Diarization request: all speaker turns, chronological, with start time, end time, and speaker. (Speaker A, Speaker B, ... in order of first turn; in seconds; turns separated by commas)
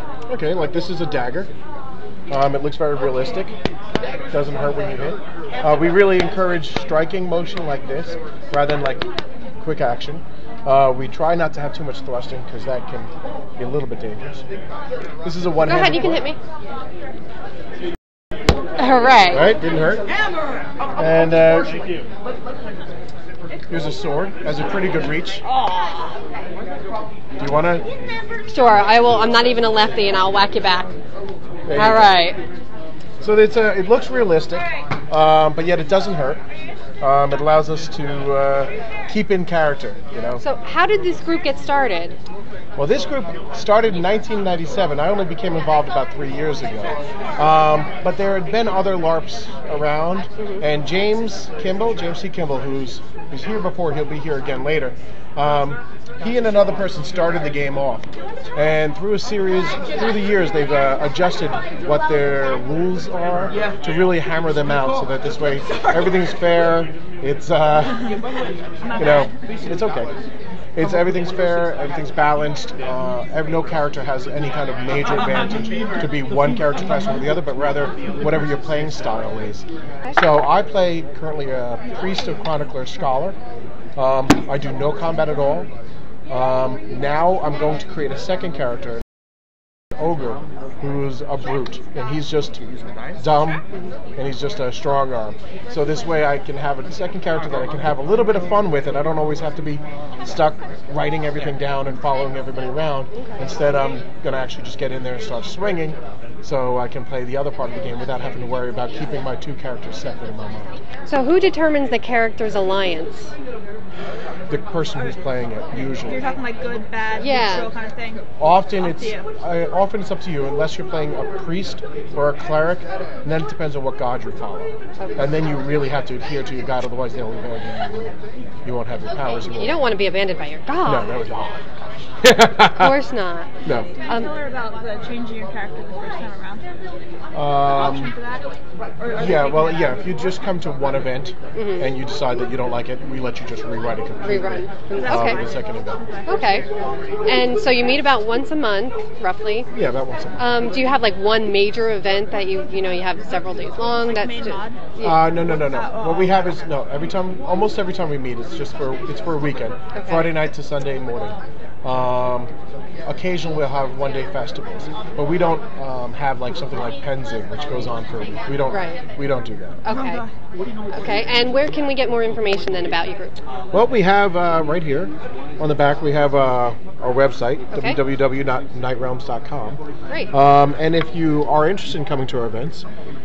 Speaker A: 0.3-1.5, Speaker A: 2.3-3.5, Speaker A: 4.3-14.4, Speaker A: 15.2-16.2, Speaker B: 15.6-16.4, Speaker B: 18.8-19.6, Speaker A: 19.3-20.1, Speaker A: 21.0-21.8, Speaker A: 23.7-25.4, Speaker B: 25.6-26.0, Speaker A: 27.4-27.9, Speaker B: 28.5-30.9, Speaker A: 31.6-32.3, Speaker B: 31.7-32.4, Speaker A: 33.2-36.4, Speaker A: 37.0-40.4, Speaker B: 40.4-42.2, Speaker A: 42.8-68.1, Speaker A: 68.9-70.1, Speaker A: 70.7-83.4, Speaker A: 84.0-85.7, Speaker A: 86.3-89.0, Speaker A: 90.0-92.6, Speaker A: 93.2-93.6, Speaker A: 94.2-110.8, Speaker B: 111.0-113.3, Speaker A: 114.5-116.3, Speaker C: 115.8-118.2, Speaker B: 117.2-117.7, Speaker A: 118.4-128.1, Speaker C: 118.8-119.2, Speaker B: 125.0-125.3, Speaker A: 128.6-129.9, Speaker B: 129.4-131.1, Speaker A: 130.8-131.7, Speaker A: 132.2-132.9, Speaker B: 132.6-133.5, Speaker A: 133.6-133.9, Speaker C: 133.9-136.7, Speaker B: 134.1-134.3, Speaker A: 137.3-138.1, Speaker C: 137.7-138.4, Speaker C: 139.0-140.1, Speaker A: 139.1-146.0, Speaker B: 141.5-141.9, Speaker B: 144.2-145.4, Speaker C: 144.9-146.6, Speaker B: 146.2-146.6, Speaker B: 147.2-149.7, Speaker A: 149.7-150.5, Speaker B: 150.4-155.3, Speaker C: 153.8-154.8, Speaker A: 155.0-162.5, Speaker C: 155.4-156.3, Speaker B: 159.9-160.3, Speaker A: 163.0-169.8, Speaker B: 168.7-169.0, Speaker B: 169.8-170.2, Speaker C: 169.9-170.2, Speaker B: 170.9-173.3, Speaker A: 173.7-182.9, Speaker B: 177.7-178.0